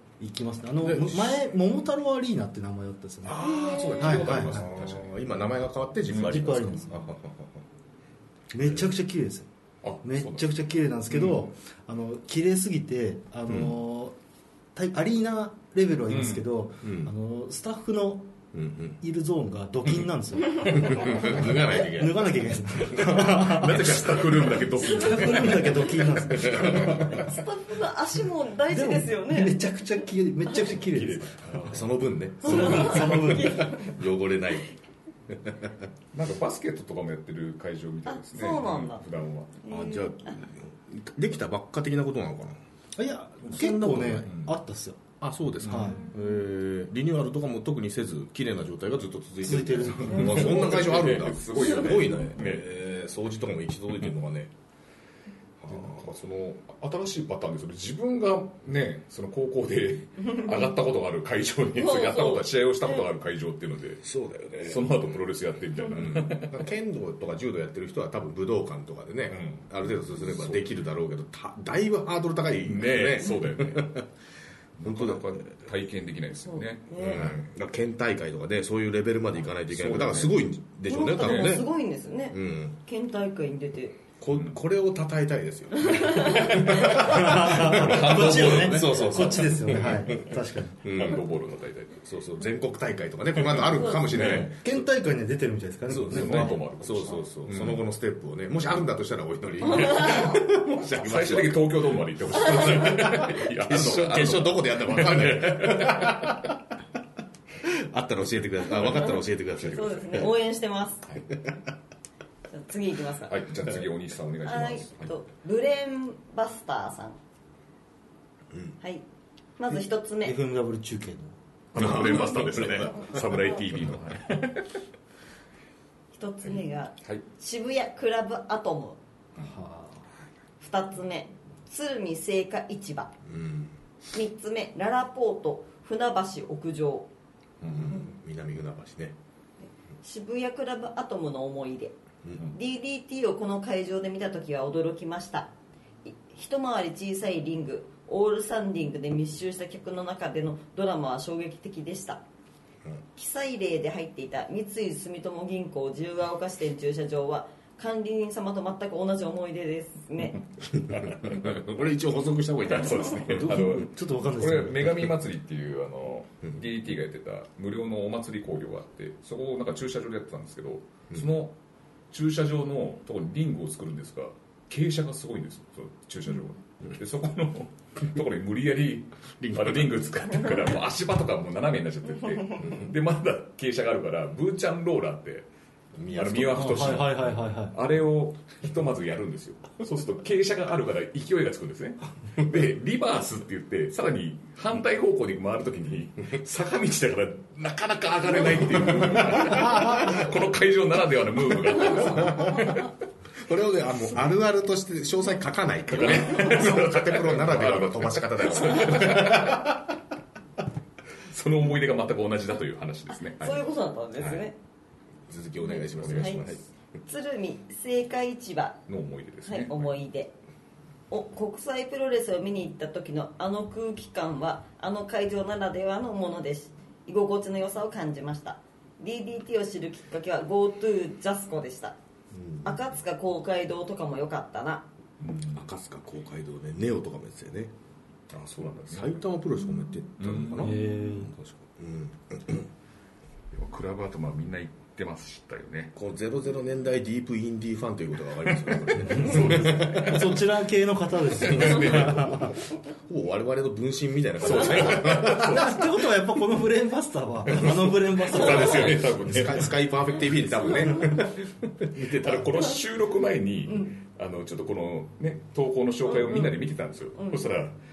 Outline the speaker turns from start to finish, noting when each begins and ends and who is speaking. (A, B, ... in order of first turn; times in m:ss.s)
0:00.2-0:03.4 A
0:00.8-0:01.5 B
0:03.2-0:07.6 B
0:03.3-0:05.2 C
0:04.0-0:04.6 A
0:06.1-0:06.4 C
0:06.1-0:07.0 A
0:08.5-0:09.5 A
0:09.8-0:10.5 C
0:10.0-0:14.1 A
0:13.5-0:13.8 B
0:14.7-0:18.3 A
0:16.1-0:16.5 C
0:16.8-0:17.1 B
0:18.5-0:19.0 B
0:19.0-0:24.0 A
0:20.6-0:24.5 B
0:20.9-0:21.3 C
0:23.1-0:27.3 C
0:24.8-0:27.2 A
0:26.3-0:27.2 B
0:27.1-0:29.6 D
0:28.7-0:31.4 A
0:30.8-0:33.4 C
0:31.7-0:34.7 B
0:32.4-0:34.0 D
0:32.4-0:33.7 A
0:35.3-0:35.9 B
0:36.1-0:39.5 C
0:38.0-0:39.0 D
0:39.6-0:40.3 D
0:39.7-0:42.6 B
0:43.0-0:45.0 A
0:43.4-0:44.3 B
0:44.2-0:44.5 C
0:45.2-0:54.5 B
0:45.6-0:46.0 A
0:45.6-0:45.9 C
0:49.4-0:50.5 A
0:50.0-0:52.7 C
0:51.8-0:52.1 D
0:55.6-0:56.1 B
0:55.7-1:04.0 C
1:00.2-1:00.6 D
1:01.7-1:03.0 D
1:04.0-1:05.2 B
1:04.6-1:06.7 C
1:05.8-1:06.1 D
1:05.9-1:14.0 B
1:09.3-1:10.7 C
1:12.6-1:14.0 C
1:14.8-1:17.4 C
1:14.8-1:15.4 B
1:16.4-1:17.2 D
1:17.0-1:21.7 B
1:19.6-1:20.4 C
1:20.8-1:24.0 D
1:21.2-1:21.6 C
1:22.3-1:22.8 B
1:24.2-1:31.2 B
1:25.8-1:27.0 D
1:26.5-1:30.2 C
1:26.9-1:30.8 A
1:30.8-1:32.0 C
1:32.0-1:34.6 B
1:33.4-1:34.5 C
1:33.6-1:34.3 D
1:34.2-1:36.6 A
1:35.9-1:46.6 B
1:36.0-1:37.8 C
1:39.7-1:40.4 D
1:40.8-1:46.5 C
1:42.5-1:43.2 D
1:47.6-1:50.3 B
1:48.8-1:51.0 D
1:49.6-1:50.2 C
1:51.3-1:51.6 B
1:52.5-1:53.4 D
1:53.3-1:55.1 C
1:54.4-1:57.2 D
1:59.6-2:00.4 D
2:00.2-2:01.3 A
2:01.7-2:04.7 C
2:01.7-2:03.3 B
2:02.8-2:03.4 D
2:06.1-2:09.0 D
2:06.4-2:07.2 C
2:09.4-2:10.0 A
2:10.6-2:13.1 D
2:13.2-2:13.7 B
2:14.1-2:17.1 D
2:17.6-2:18.0 C
2:17.7-2:19.2 B
2:19.6-2:21.9 D
2:22.5-2:25.5 D
2:26.0-2:32.2 D
2:33.2-2:40.4 D
2:40.7-2:41.6 C
2:40.8-2:43.7 B
2:42.6-2:51.6 C
2:43.2-2:45.1 A
2:52.1-3:05.5 C
2:59.4-3:00.1 B
3:05.9-3:07.0 B
3:06.1-3:22.9 C
3:06.5-3:07.7 A
3:22.2-3:22.6 B
3:23.4-3:29.7 B
3:25.9-3:29.8 C
3:31.3-3:33.6 C
3:33.1-3:34.6 D
3:35.3-3:36.6 B
3:35.7-3:38.8 D
3:35.9-3:36.6 C
3:38.9-3:39.9 C
3:39.4-3:40.3 D
3:41.1-3:52.0 D
3:52.3-3:52.7 B
3:52.6-3:54.8 D
3:55.2-3:55.6 C
3:55.5-3:57.7 B
3:58.3-3:59.2 C
3:58.9-4:02.7 B
4:00.2-4:00.7 C
4:00.6-4:01.3 A
4:03.5-4:05.9 C
4:05.9-4:10.3 B
4:08.7-4:10.5 C
4:09.2-4:12.5 A
4:11.4-4:12.6 C
4:11.5-4:12.5 B
4:13.1-4:15.7 B
4:14.4-4:15.9 C
4:15.4-4:19.0 A
4:17.5-4:17.8 B
4:17.6-4:21.3 C
4:18.3-4:22.7 B
4:22.0-4:27.8 C
4:26.1-4:26.5 D
4:27.2-4:27.5 D